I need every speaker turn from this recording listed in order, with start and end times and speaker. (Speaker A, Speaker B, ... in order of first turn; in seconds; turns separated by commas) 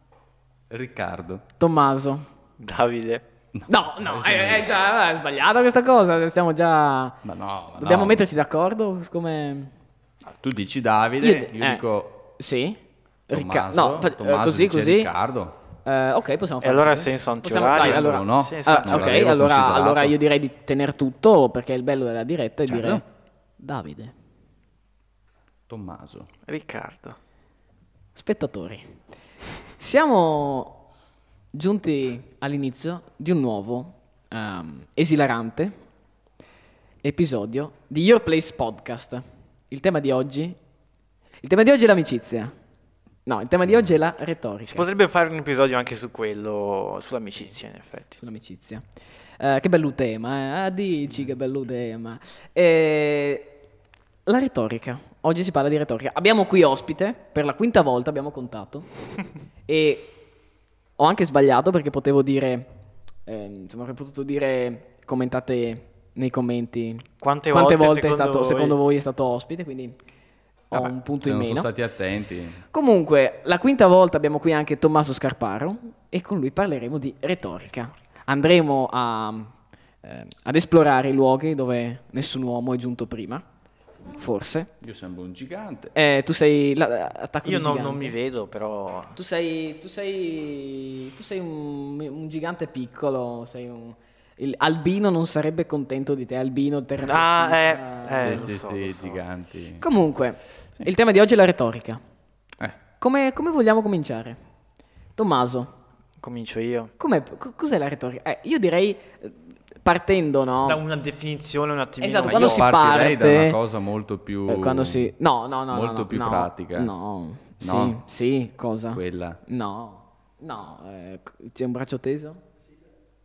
Speaker A: 0.7-1.4, Speaker B: 1.6-2.2, Speaker C: 2.6-3.2, Speaker A: 3.5-4.7, Speaker B: 3.7-7.2, Speaker A: 7.2-8.2, Speaker B: 7.8-9.7, Speaker A: 10.3-12.2, Speaker B: 11.2-11.8, Speaker B: 12.4-15.1, Speaker A: 13.3-15.6, Speaker B: 15.8-23.0, Speaker C: 16.6-19.2, Speaker A: 17.7-20.1, Speaker A: 22.7-23.0, Speaker B: 23.6-24.1, Speaker A: 25.7-26.3, Speaker C: 26.5-27.2, Speaker B: 28.1-29.0, Speaker B: 29.8-30.8, Speaker B: 31.5-35.8, Speaker B: 37.0-40.6, Speaker B: 41.4-42.5, Speaker B: 43.2-44.8, Speaker C: 44.7-48.2, Speaker B: 48.2-48.8, Speaker B: 49.4-53.6, Speaker B: 54.2-58.9, Speaker B: 59.7-60.2, Speaker B: 61.0-62.7, Speaker B: 63.2-70.0, Speaker C: 67.2-68.8, Speaker B: 70.7-71.7, Speaker A: 70.7-72.6, Speaker B: 72.7-83.4, Speaker B: 84.1-84.7, Speaker A: 84.8-85.9, Speaker B: 85.9-88.1, Speaker C: 87.4-89.2, Speaker B: 89.1-98.5, Speaker C: 97.0-99.2, Speaker A: 98.2-99.8, Speaker B: 99.8-102.0, Speaker B: 103.0-104.4, Speaker B: 105.2-105.7, Speaker C: 106.2-106.9, Speaker B: 107.0-110.8, Speaker C: 110.6-112.7, Speaker B: 112.0-113.6, Speaker A: 112.3-115.1, Speaker B: 114.5-122.4, Speaker A: 115.7-116.9, Speaker A: 117.6-118.0, Speaker A: 118.9-119.4